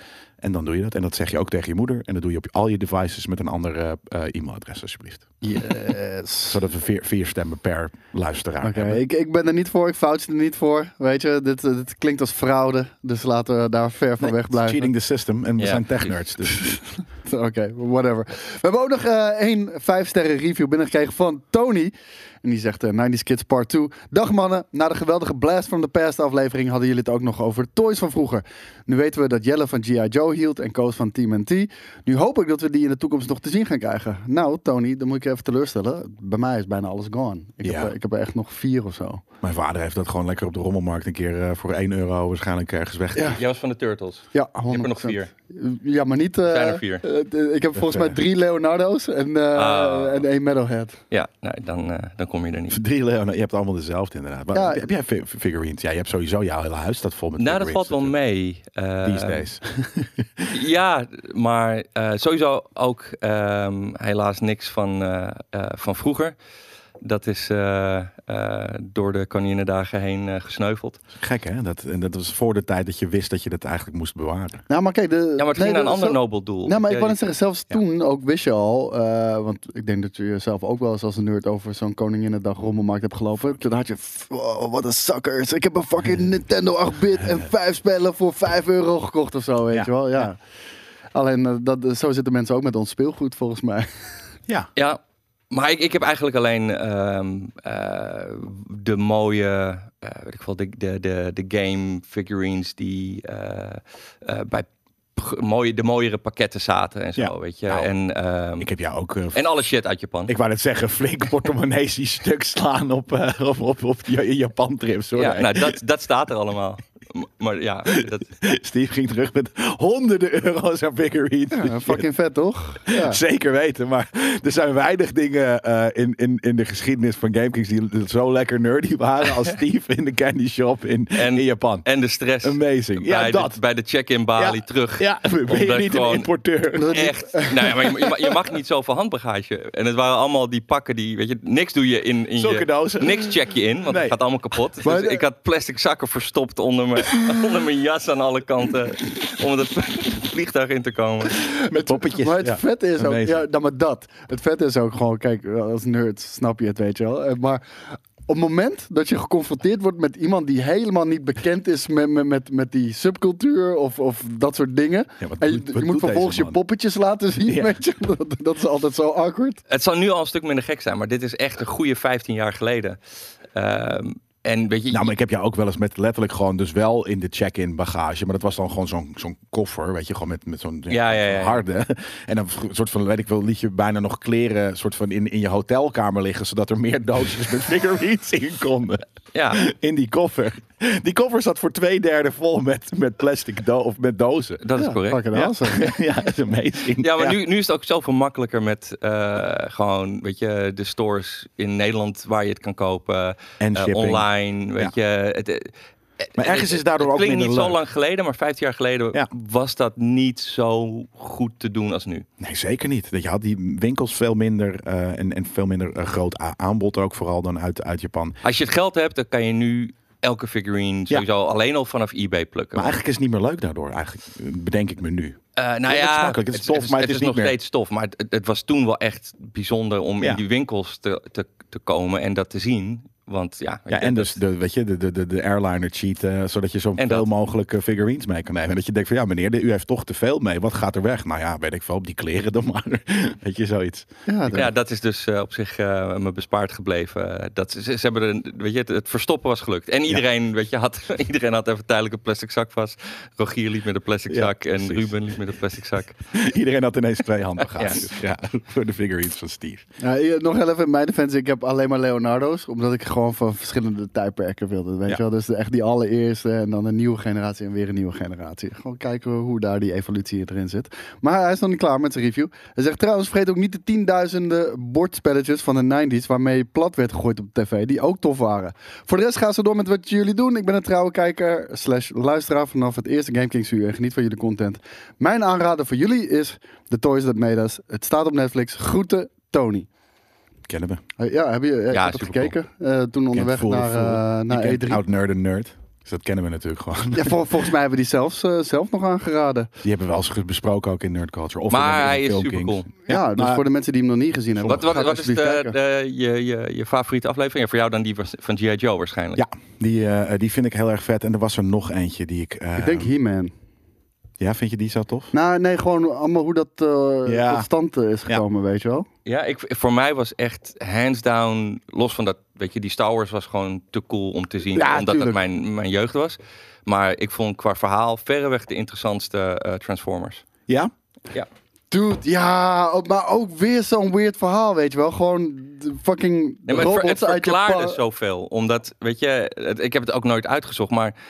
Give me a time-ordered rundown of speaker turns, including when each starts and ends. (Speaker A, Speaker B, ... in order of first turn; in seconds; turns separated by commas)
Speaker A: 0.4-5.3, Speaker B: 5.4-6.6, Speaker A: 6.5-9.0, Speaker B: 8.6-14.9, Speaker A: 14.2-16.8, Speaker C: 15.6-16.1, Speaker B: 16.6-39.2, Speaker A: 37.6-37.9, Speaker A: 39.4-43.4, Speaker B: 43.1-43.4, Speaker C: 43.3-45.3, Speaker B: 44.3-51.0, Speaker C: 46.5-47.0, Speaker A: 47.8-48.2, Speaker C: 49.5-50.2, Speaker C: 51.1-52.8, Speaker A: 52.7-58.1, Speaker B: 54.5-54.9, Speaker C: 57.4-59.5, Speaker A: 59.0-60.6, Speaker C: 60.5-66.3, Speaker C: 67.0-71.0, Speaker A: 71.2-74.6, Speaker B: 74.7-90.4, Speaker C: 75.4-77.2, Speaker A: 89.7-90.2, Speaker B: 91.1-94.2, Speaker C: 95.5-108.7, Speaker A: 107.2-107.9, Speaker A: 108.6-109.4, Speaker C: 109.3-110.3, Speaker A: 110.3-115.8, Speaker C: 115.2-118.4, Speaker A: 117.9-122.1, Speaker B: 121.5-123.2, Speaker A: 122.9-131.8, Speaker C: 131.2-136.3, Speaker A: 132.4-133.6, Speaker A: 134.4-137.1, Speaker B: 136.8-138.3, Speaker C: 136.9-151.4, Speaker A: 142.4-144.2, Speaker B: 144.8-145.2, Speaker B: 151.6-169.6, Speaker A: 151.7-153.4, Speaker A: 165.2-166.6, Speaker A: 167.5-167.7, Speaker C: 169.7-173.0, Speaker C: 173.5-175.1, Speaker A: 174.9-194.6, Speaker C: 180.9-181.6, Speaker C: 189.3-189.6, Speaker C: 194.6-195.2, Speaker B: 194.8-196.0, Speaker A: 195.3-197.4, Speaker C: 197.0-212.3, Speaker A: 203.6-204.3, Speaker A: 206.4-207.8, Speaker A: 212.4-218.4, Speaker C: 218.4-223.0, Speaker A: 222.8-227.6, Speaker C: 225.6-234.4, Speaker A: 233.9-244.7, Speaker C: 237.0-237.3, Speaker B: 244.3-244.7, Speaker C: 244.5-256.2, Speaker A: 254.3-255.3, Speaker A: 256.3-259.9, Speaker C: 257.8-258.1, Speaker B: 260.0-289.9, Speaker A: 290.7-291.0, Speaker B: 291.2-295.0, Speaker C: 291.9-292.5, Speaker A: 293.3-297.7, Speaker B: 297.1-299.7, Speaker A: 299.8-303.6, Speaker C: 301.7-302.9, Speaker B: 303.1-305.8, Speaker A: 304.6-304.9, Speaker C: 304.7-309.4, Speaker A: 309.4-313.1, Speaker B: 312.8-313.5, Speaker A: 314.4-315.3, Speaker B: 315.3-319.1, Speaker A: 317.3-317.7, Speaker C: 319.3-330.4, Speaker A: 324.7-325.4, Speaker A: 330.7-330.9, Speaker B: 331.9-338.0, Speaker C: 336.7-341.1